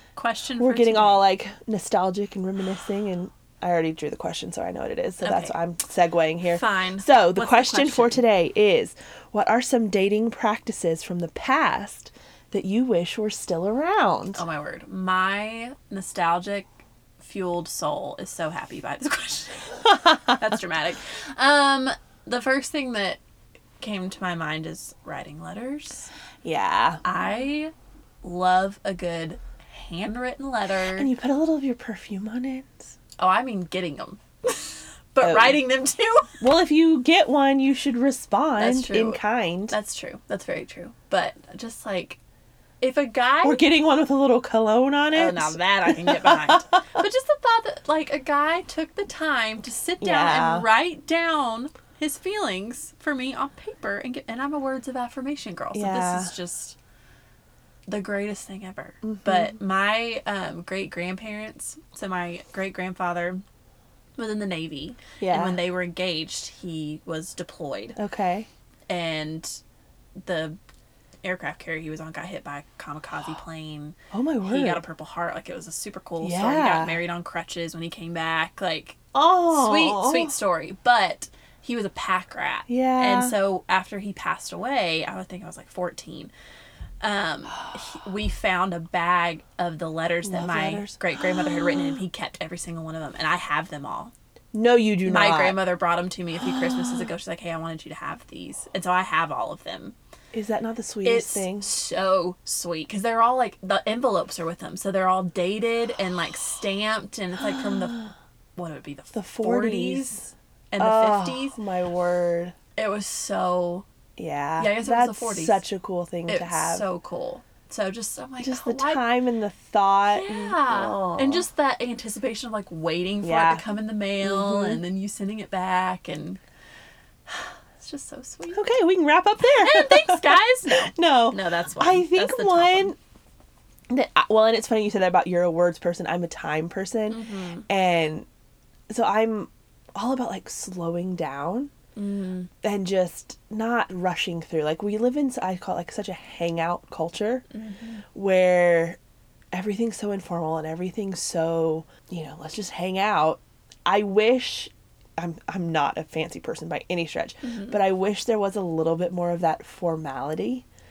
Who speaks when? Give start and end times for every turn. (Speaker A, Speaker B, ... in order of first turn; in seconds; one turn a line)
Speaker A: 0.2-1.3
Speaker B: 0.6-14.4
Speaker A: 5.2-5.5
Speaker A: 6.5-8.2
Speaker A: 14.3-23.2
Speaker A: 23.8-26.1
Speaker B: 26.4-27.0
Speaker A: 27.0-27.7
Speaker A: 28.2-31.1
Speaker B: 30.9-32.9
Speaker A: 33.2-36.4
Speaker B: 35.2-35.6
Speaker B: 36.4-39.8
Speaker A: 38.6-42.2
Speaker A: 42.8-43.6
Speaker B: 43.4-47.0
Speaker A: 45.1-56.8
Speaker B: 50.0-50.7
Speaker B: 55.7-56.3
Speaker A: 57.9-63.4
Speaker B: 59.0-59.6
Speaker A: 64.2-68.0
Speaker B: 65.2-65.6
Speaker B: 68.0-68.5
Speaker A: 68.9-69.6
Speaker A: 70.2-70.6
Speaker A: 71.2-86.3
Speaker B: 74.1-74.8
Speaker B: 76.2-77.0
Speaker B: 79.1-80.3
Speaker B: 82.7-83.3
Speaker A: 87.0-94.1
Speaker B: 90.2-92.0
Speaker B: 94.5-95.6
Speaker A: 95.0-100.0
Speaker B: 100.3-101.7
Speaker A: 101.0-111.6
Speaker B: 109.1-110.1
Speaker B: 110.8-112.5
Speaker A: 112.8-113.9
Speaker B: 114.2-116.9
Speaker A: 114.6-115.6
Speaker A: 116.3-119.1
Speaker B: 118.4-121.5
Speaker A: 120.1-126.4
Speaker B: 123.2-123.7
Speaker B: 124.2-124.8
Speaker A: 127.3-128.7
Speaker B: 128.5-133.0
Speaker A: 129.4-132.9
Speaker B: 133.9-138.3
Speaker A: 137.1-137.7
Speaker B: 138.9-141.7
Speaker A: 142.0-142.5
Speaker B: 142.6-147.4
Speaker A: 147.5-148.0
Speaker B: 148.1-149.0
Speaker B: 149.5-160.7
Speaker A: 157.4-157.8